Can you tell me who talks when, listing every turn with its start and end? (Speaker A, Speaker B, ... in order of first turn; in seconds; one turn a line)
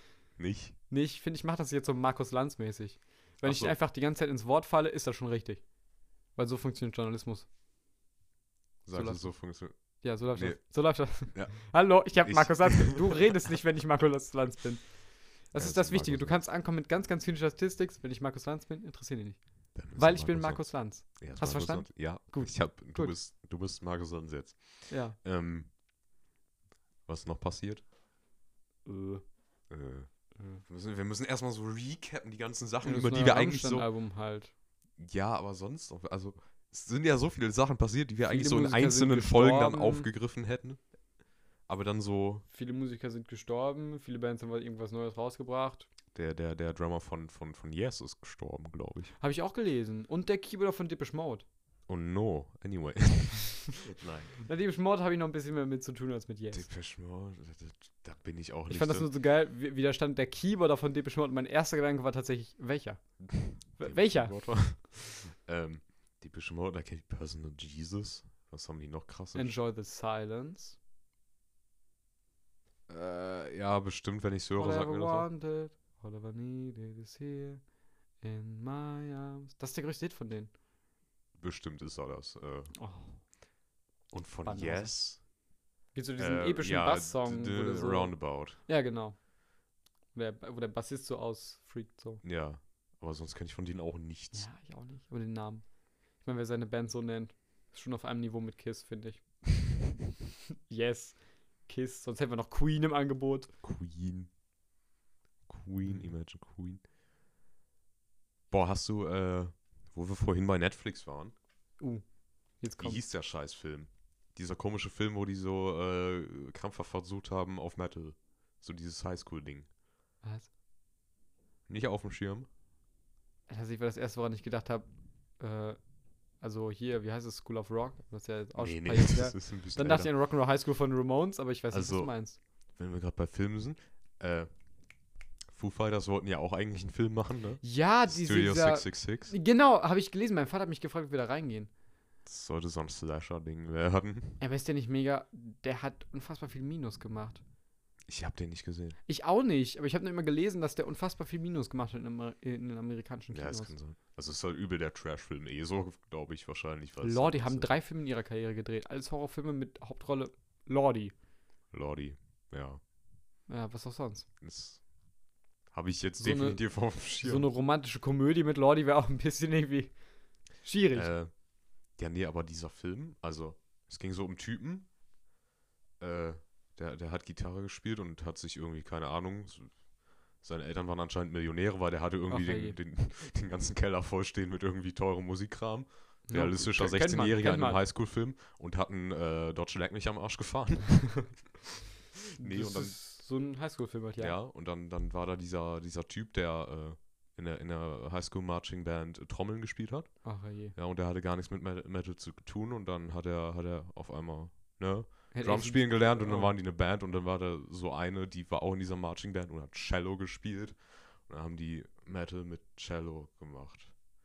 Speaker A: 0.4-0.8
Speaker B: 0.9-5.6
Speaker A: 3.4-3.8
Speaker B: 6.3-7.5
Speaker A: 8.8-9.7
Speaker B: 8.9-9.3
Speaker B: 10.0-19.4
Speaker A: 10.3-10.6
Speaker A: 11.1-13.1
Speaker A: 15.6-16.4
Speaker A: 19.7-25.7
Speaker B: 19.9-23.1
Speaker B: 24.9-25.2
Speaker A: 27.1-27.8
Speaker B: 28.9-29.2
Speaker A: 29.7-30.1
Speaker A: 30.6-33.9
Speaker B: 32.8-34.5
Speaker A: 35.0-40.8
Speaker B: 38.2-40.1
Speaker A: 41.7-42.5
Speaker B: 42.5-45.9
Speaker A: 46.1-49.1
Speaker B: 49.2-51.5
Speaker A: 51.9-54.4
Speaker B: 54.4-56.6
Speaker A: 56.5-59.1
Speaker B: 58.7-63.0
Speaker B: 63.8-64.3
Speaker A: 63.8-69.6
Speaker B: 69.3-70.8
Speaker A: 72.9-75.3
Speaker B: 74.6-77.6
Speaker B: 78.2-80.5
Speaker A: 81.3-82.7
Speaker B: 82.7-83.2
Speaker A: 84.1-85.2
Speaker B: 84.4-84.9
Speaker B: 85.9-89.2
Speaker A: 86.2-88.6
Speaker B: 90.1-92.2
Speaker A: 92.2-94.5
Speaker B: 94.3-95.6
Speaker B: 96.2-99.2
Speaker B: 100.7-103.5
Speaker A: 103.6-104.3
Speaker A: 105.5-106.8
Speaker A: 108.5-111.3
Speaker B: 112.6-113.1
Speaker A: 112.8-119.7
Speaker B: 120.2-120.5
Speaker A: 121.7-122.5
Speaker B: 123.5-124.8
Speaker B: 125.4-125.8
Speaker B: 126.4-132.4
Speaker A: 128.6-130.1
Speaker A: 131.7-132.1
Speaker A: 132.8-134.5
Speaker A: 135.5-139.3
Speaker B: 137.6-141.7
Speaker A: 142.2-144.4
Speaker B: 144.4-147.4
Speaker A: 148.1-149.0
Speaker B: 149.1-153.7
Speaker A: 153.3-157.8
Speaker B: 157.0-161.1
Speaker A: 161.7-162.8
Speaker B: 163.5-164.3
Speaker A: 164.4-164.8
Speaker A: 165.7-167.5
Speaker B: 166.2-166.6
Speaker B: 167.2-169.9
Speaker B: 170.6-171.1
Speaker A: 170.9-171.3
Speaker A: 171.9-174.9
Speaker A: 176.0-179.7
Speaker A: 180.4-191.4
Speaker B: 182.3-182.8
Speaker B: 186.3-187.8
Speaker B: 192.4-194.3
Speaker A: 192.4-192.9
Speaker A: 194.2-213.9
Speaker B: 200.2-200.7
Speaker B: 205.3-206.5